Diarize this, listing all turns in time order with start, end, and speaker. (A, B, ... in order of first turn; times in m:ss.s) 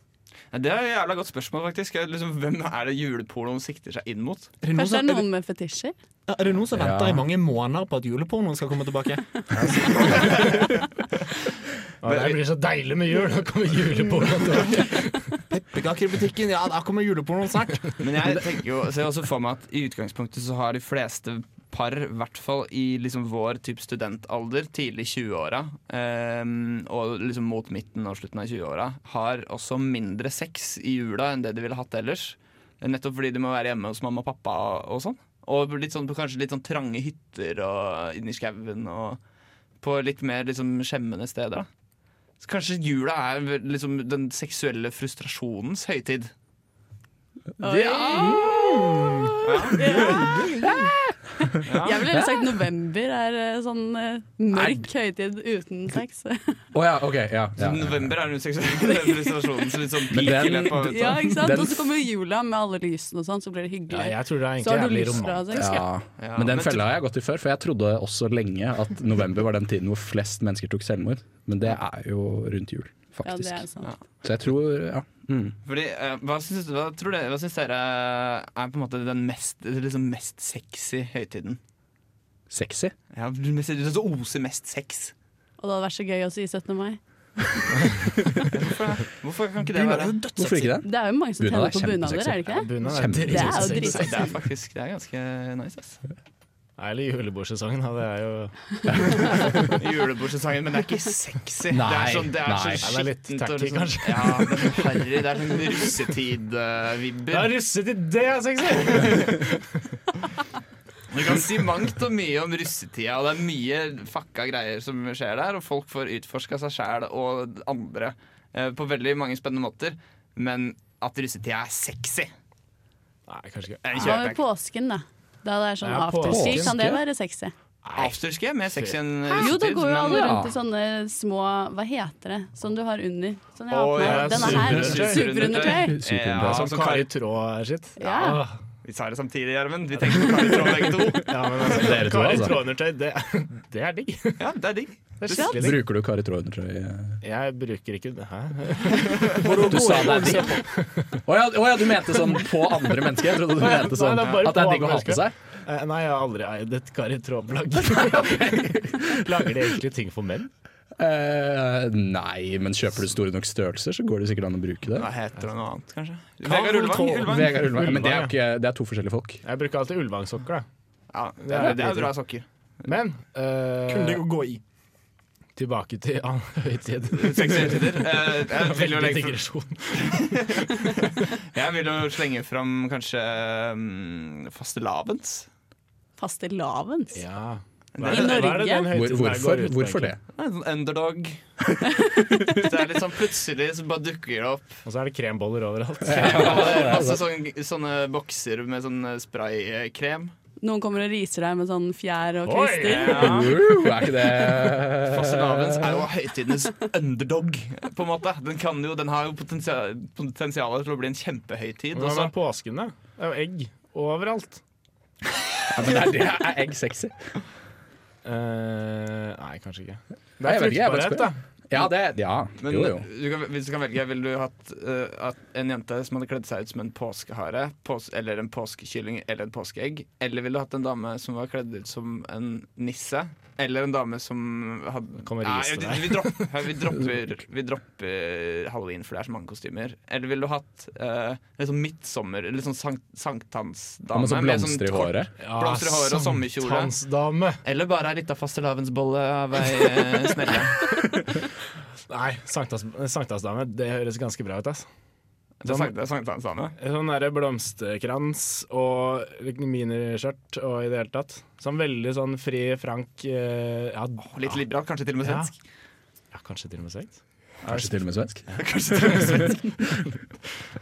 0:00.5-0:04.5 A
0:04.6-0:05.3 B
0:04.7-0:05.9 C
0:06.3-0:10.7 B
0:06.7-0:07.3 D
0:09.5-0:10.6 E
0:10.2-0:10.6 A
0:12.0-0:15.4 E
0:12.1-0:12.4 A
0:14.6-0:14.9 A
0:15.5-0:18.0 B
0:18.0-0:39.2 A
0:39.8-0:41.7 A
0:42.4-0:46.3 A
0:47.6-0:48.5 C
0:47.6-0:49.8 D
0:48.1-0:50.9 B
0:49.4-0:50.0 A
0:49.7-0:56.6 C
0:51.6-0:52.6 D
0:51.6-0:52.1 A
0:54.5-0:54.8 D
0:56.7-0:58.1 D
0:57.6-1:01.4 A
0:59.0-0:59.3 C
1:00.1-1:01.9 D
1:00.9-1:05.8 C
1:03.9-1:05.7 E
1:05.6-1:13.7 D
1:06.2-1:06.9 A
1:13.2-1:13.9 C
1:14.2-1:15.6 D
1:15.6-1:21.6 A
1:22.5-1:22.9 D
1:23.1-1:25.1 A
1:25.6-1:27.0 C
1:28.5-1:30.2 A
1:29.6-1:30.8 B
1:30.4-1:33.8 D
1:30.8-1:32.7 C
1:32.5-1:34.3 E
1:33.3-1:34.3 C
1:33.8-1:36.0 A
1:36.8-1:39.8 E
1:39.7-1:47.5 A
1:41.7-1:42.9 D
1:42.8-1:45.1 E
1:47.3-1:49.6 E
1:48.9-1:49.2 A
1:51.1-2:02.3 A
2:03.3-2:04.2 E
2:03.8-2:04.4 A
2:04.0-2:07.5 C
2:05.8-2:06.9 E
2:06.3-2:07.0 D
2:07.8-2:08.2 E
2:07.9-2:10.4 A
2:08.7-2:09.0 E
2:09.4-2:16.0 C
2:10.1-2:10.5 D
2:13.7-2:17.1 A
2:14.0-2:15.7 E
2:15.8-2:16.7 D
2:16.4-2:18.6 E
2:18.0-2:18.4 C
2:18.8-2:21.7 A
2:21.1-2:24.4 E
2:21.7-2:22.6 D
2:24.4-2:25.6 A
2:25.2-2:25.8 E
2:25.4-2:27.2 D
2:27.2-2:30.0 E
2:29.0-2:29.3 A
2:29.3-2:30.7 B
2:29.7-2:30.5 D
2:30.7-2:31.2 E
2:31.3-2:35.4 D
2:33.6-2:40.5 E
2:34.2-2:34.5 A
2:37.8-2:39.3 D
2:41.0-2:45.1 D
2:45.0-2:47.6 A
2:46.4-2:47.4 B
2:47.3-2:49.4 D
2:47.4-2:48.3 E
2:49.4-2:50.6 E
2:51.1-2:52.4 A
2:51.4-2:52.1 E
2:52.8-2:54.2 E
2:53.9-2:54.6 B
2:55.6-3:01.3 E
2:57.2-2:59.4 A
2:59.9-3:05.5 A
3:06.2-3:07.2 C
3:07.1-3:10.1 E
3:08.0-3:08.4 A
3:08.1-3:08.9 C
3:08.9-3:10.2 D
3:10.4-3:14.8 A
3:14.8-3:17.2 E
3:16.1-3:17.2 D
3:16.1-3:20.3 A
3:20.6-3:23.4 C
3:22.4-3:23.6 E
3:22.8-3:23.6 A
3:23.2-3:26.0 D
3:25.0-3:32.3 A
3:31.9-3:34.6 E
3:35.7-3:37.3 D
3:38.2-3:41.4 E
3:40.4-3:43.1 D
3:42.6-4:07.0 A
3:55.3-3:56.5 E
4:04.1-4:05.3 D
4:05.4-4:07.6 E
4:07.6-4:11.0 A
4:12.1-4:14.9 E
4:15.6-4:16.8 A
4:15.7-4:15.9 E
4:16.8-4:24.6 E
4:24.2-4:25.5 A
4:25.2-4:25.5 E
4:26.3-4:29.2 E
4:27.7-4:30.0 D
4:28.6-4:29.8 A